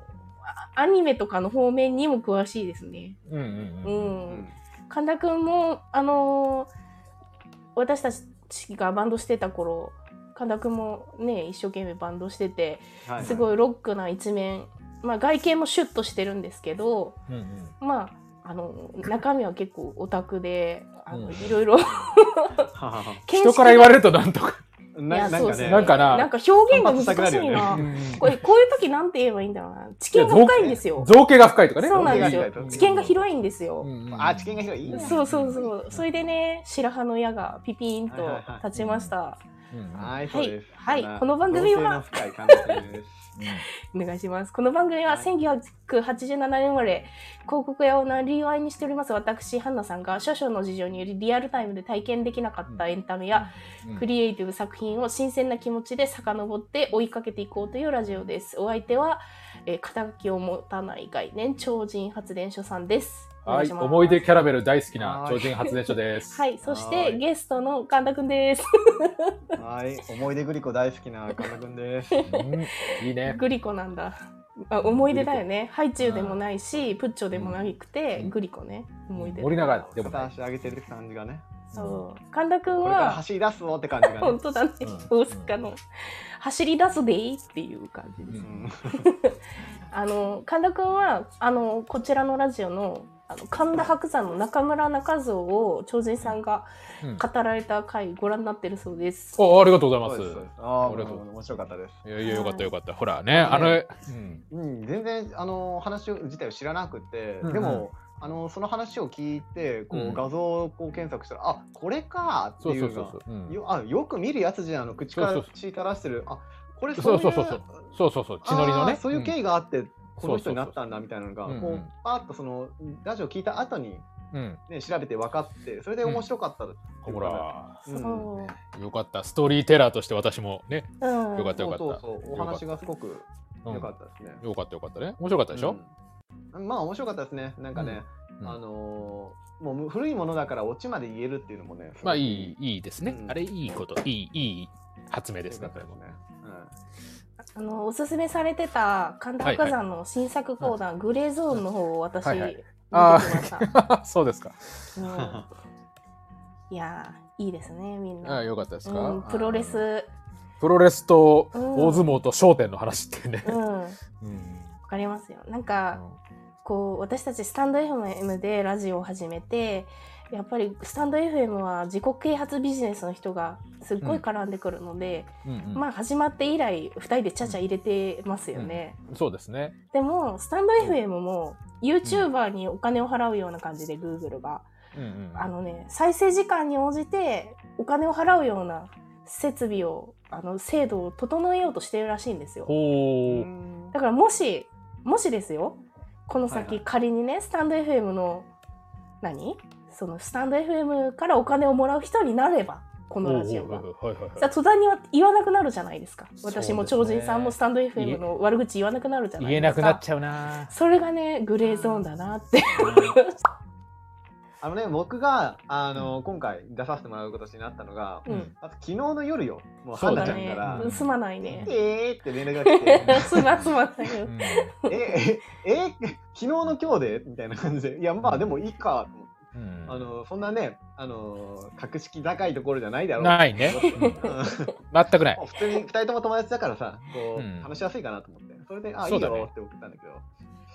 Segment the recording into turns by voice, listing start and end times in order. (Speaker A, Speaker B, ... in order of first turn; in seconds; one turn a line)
Speaker A: 0.4-3.2
Speaker B: 3.3-4.2
Speaker A: 3.8-6.7
Speaker C: 4.3-4.5
Speaker A: 7.7-17.2
Speaker C: 13.0-13.4
Speaker B: 17.3-17.7
Speaker A: 17.8-22.7
Speaker B: 21.1-21.5
Speaker C: 22.7-23.2
Speaker A: 23.2-23.9
Speaker B: 23.3-24.6
Speaker C: 24.9-28.2
Speaker A: 25.1-31.1
Speaker B: 25.3-26.3
Speaker B: 27.6-28.3
Speaker B: 30.1-33.2
Speaker A: 31.8-33.9
Speaker C: 31.9-33.0
Speaker B: 33.8-36.0
Speaker C: 34.1-35.7
Speaker A: 34.9-39.4
Speaker C: 38.1-38.6
Speaker B: 38.7-39.1
Speaker B: 39.7-40.1
Speaker C: 39.9-43.3
Speaker A: 40.3-42.8
Speaker B: 43.4-43.6
Speaker A: 43.4-64.2
Speaker B: 52.7-54.0
Speaker B: 63.4-66.4
Speaker C: 65.0-65.7
Speaker A: 66.3-69.4
Speaker C: 66.6-67.2
Speaker C: 69.6-72.3
Speaker A: 72.1-79.9
Speaker B: 72.2-73.4
Speaker B: 74.8-75.4
Speaker B: 76.0-76.4
Speaker B: 77.3-78.3
Speaker B: 79.1-80.3
Speaker C: 80.0-81.5
Speaker B: 81.7-82.0
Speaker A: 81.7-83.2
Speaker C: 82.7-84.4
Speaker A: 84.0-85.8
Speaker B: 84.8-85.5
Speaker A: 86.4-99.4
Speaker C: 88.4-89.0
Speaker B: 99.4-101.2
Speaker C: 100.0-102.0
Speaker B: 102.0-104.4
Speaker A: 102.2-102.7
Speaker C: 103.3-103.8
Speaker C: 104.5-117.7
Speaker B: 107.4-107.8
Speaker B: 109.9-110.2
Speaker B: 112.6-113.6
Speaker B: 115.1-115.5
Speaker B: 117.0-119.3
Speaker C: 118.4-124.1
Speaker B: 120.2-120.8
Speaker B: 121.5-121.9
Speaker B: 124.3-124.6
Speaker C: 124.7-128.3
Speaker B: 127.0-127.8
Speaker A: 127.9-128.6
Speaker B: 128.4-132.6
Speaker A: 131.0-131.7
Speaker C: 131.6-134.4
Speaker B: 134.4-135.8
Speaker C: 135.5-135.9
Speaker C: 136.5-143.4
Speaker B: 137.7-138.6
Speaker B: 142.0-146.0
Speaker C: 145.5-146.7
Speaker A: 147.6-153.7
Speaker B: 149.4-149.7
Speaker B: 152.2-154.9
Speaker A: 154.9-155.4
Speaker C: 155.1-155.5
Speaker A: 156.7-160.1
Speaker B: 158.2-159.8
Speaker B: 160.6-163.6
Speaker A: 161.5-162.1
Speaker A: 163.4-164.0
Speaker B: 164.2-164.7
Speaker A: 164.8-166.0
Speaker B: 165.9-166.2
Speaker A: 166.6-179.0
Speaker B: 175.4-175.8
Speaker B: 178.5-179.7
Speaker A: 179.9-184.7
Speaker B: 184.9-185.5
Speaker A: 185.3-192.7
Speaker B: 192.7-193.5
Speaker C: 193.2-193.9
Speaker A: 193.9-198.5
Speaker C: 196.5-196.8
Speaker A: 199.2-203.8
Speaker B: 203.2-204.5
Speaker A: 204.4-210.0
Speaker B: 206.4-208.2
Speaker B: 209.4-210.7
Speaker A: 210.7-213.4
Speaker C: 211.6-212.1
Speaker B: 212.8-213.1
Speaker C: 214.6-220.9
Speaker A: 218.2-218.5
Speaker B: 218.3-218.5
Speaker B: 220.0-221.7
Speaker A: 220.0-221.7
Speaker C: 221.6-223.5
Speaker A: 222.6-225.2
Speaker B: 223.0-223.7
Speaker B: 224.2-224.7
Speaker C: 224.9-234.7
Speaker B: 229.5-230.0
Speaker B: 233.2-234.3
Speaker A: 233.7-234.5
Speaker B: 234.9-235.4
Speaker C: 235.3-240.2
Speaker B: 237.3-237.7
Speaker B: 239.0-239.5